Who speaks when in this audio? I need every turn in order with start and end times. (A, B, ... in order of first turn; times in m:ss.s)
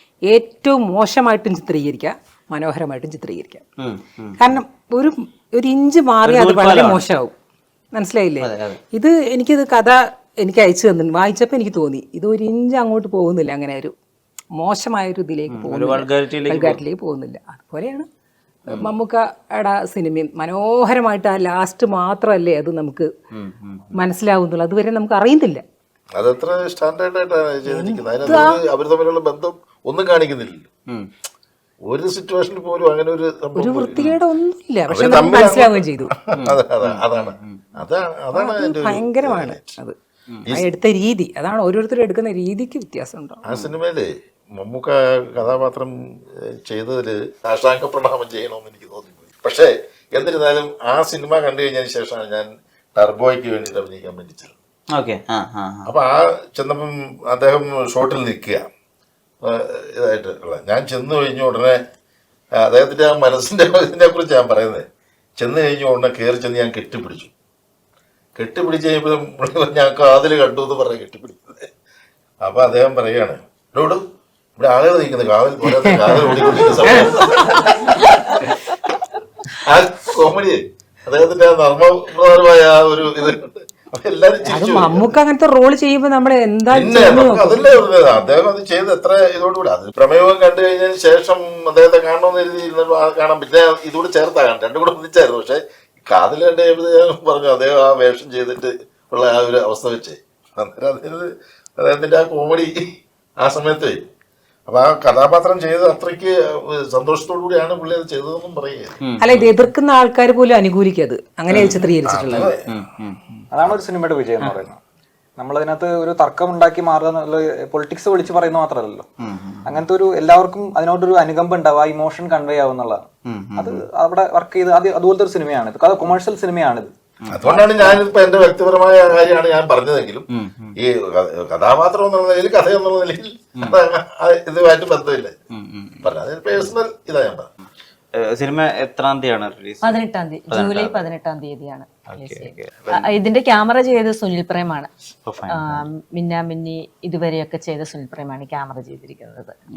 0:00.3-0:03.6 A
0:03.8-0:04.6 B
0:04.4-0:07.3 A
0:06.2-0:07.0 B
0:07.9-0:13.9 A
0:08.4-0:08.8 B
0:14.6-0:18.0 A
0:15.5-0:16.8 B
0:18.7-0:23.1 A
0:23.3-0:24.0 B
0:23.9-0:25.6 A
0:26.1-0:30.7 C
0:27.7-0:28.6 A
0:31.9-0:34.0 C
0:33.6-0:36.1 A
0:34.9-0:39.7 C
0:36.4-0:37.6 B
0:38.3-0:40.0 A
0:40.5-0:43.4 A
0:43.4-0:45.9 C
0:46.5-0:54.5 C
0:54.9-0:55.9 B
0:55.8-0:58.7 C
0:59.4-1:01.8 C
1:02.6-1:04.8 C
1:05.4-1:07.3 C
1:08.4-1:11.7 C
1:12.4-1:14.0 C
1:14.6-1:18.0 C
1:15.8-1:17.7 A
1:19.6-1:25.2 C
1:24.4-1:27.8 A
1:26.7-1:42.7 C
1:43.4-1:44.0 C
1:44.7-1:49.0 C
1:49.0-1:49.5 B
1:49.2-1:52.5 A
1:51.5-1:51.8 B
1:51.5-1:52.7 C
1:52.7-1:53.4 B
1:53.5-1:54.8 D
1:55.4-1:59.1 D
1:59.2-1:59.8 B
1:59.6-2:03.0 D
2:03.3-2:03.8 B
2:03.6-2:06.9 D
2:07.2-2:07.5 B
2:07.3-2:10.3 C
2:10.3-2:10.8 B
2:10.8-2:15.3 C
2:15.5-2:16.7 B
2:16.0-2:17.5 C
2:18.2-2:20.0 B
2:19.8-2:24.9 E
2:20.5-2:21.1 B
2:22.1-2:23.0 B
2:25.2-2:25.8 B
2:25.4-2:29.5 E